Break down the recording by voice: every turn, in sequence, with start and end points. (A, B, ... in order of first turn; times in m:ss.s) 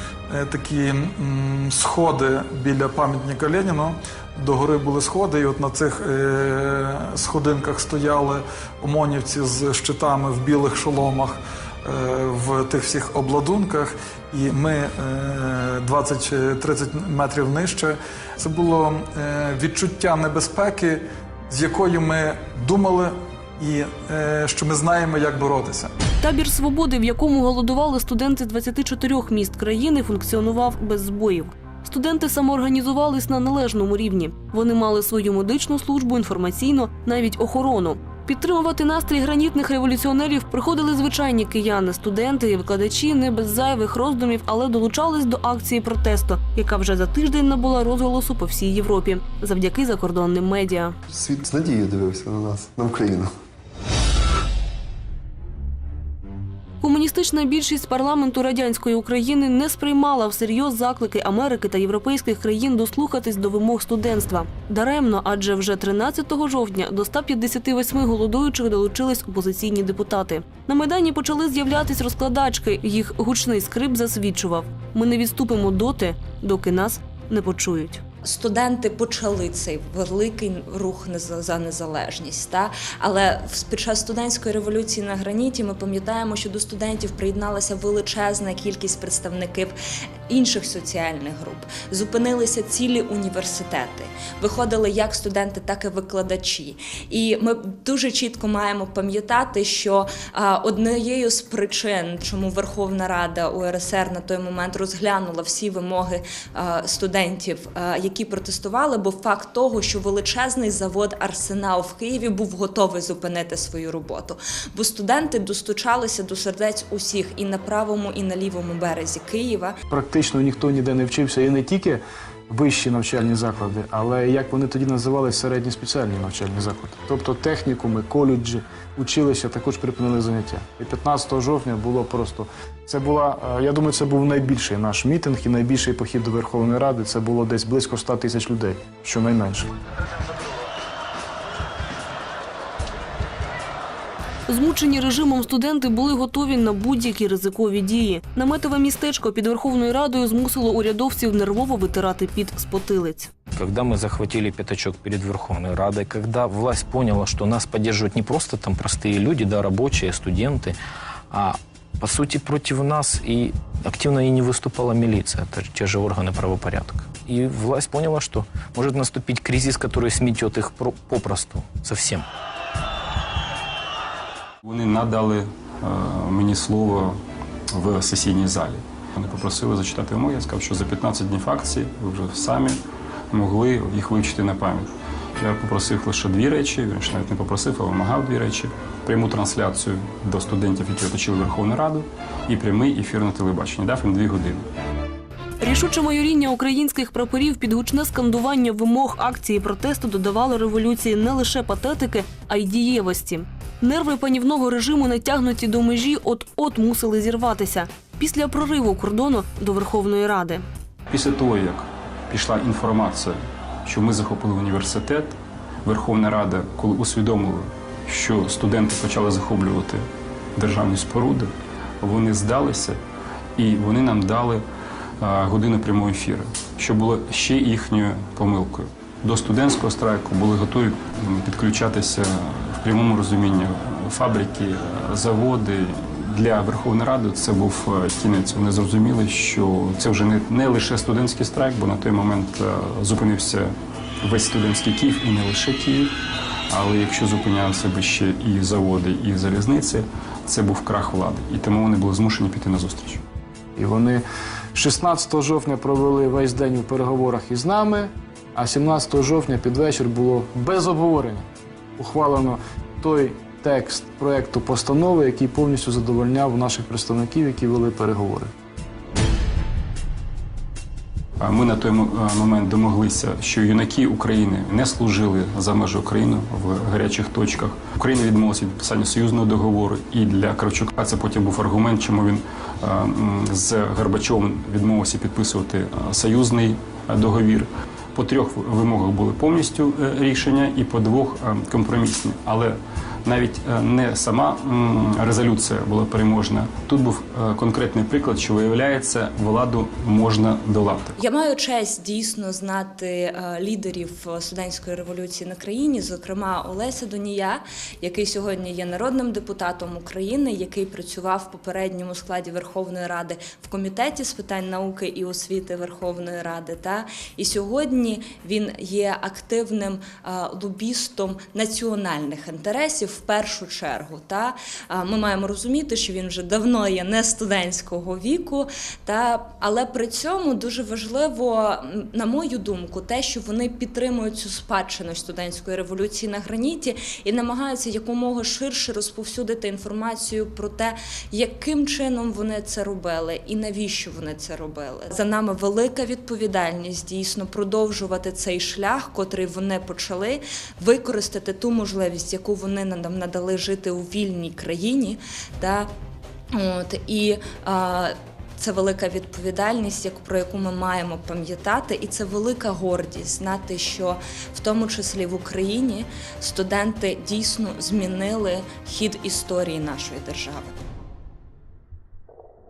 0:00.3-0:25.9 A
0:26.2-0:51.0 B
0:51.1-0:53.3 C
0:56.8-1:18.0 B
1:18.2-1:29.7 D
1:30.3-1:59.8 D
1:59.9-2:19.7 E
2:24.5-2:33.3 B
2:33.5-2:40.8 F
2:41.3-2:52.3 F
2:54.6-2:57.2 G
2:57.7-3:02.8 G
3:03.3-3:14.6 G
3:15.6-3:30.6 B
3:31.1-3:40.0 G
3:40.6-3:43.0 G
3:43.6-3:44.6 G
3:45.2-4:06.1 G
4:06.7-4:13.2 G
4:13.8-4:14.2 E
4:14.8-4:28.5 E
4:31.4-5:01.2 G
5:01.2-5:55.9 D
5:56.5-6:10.7 D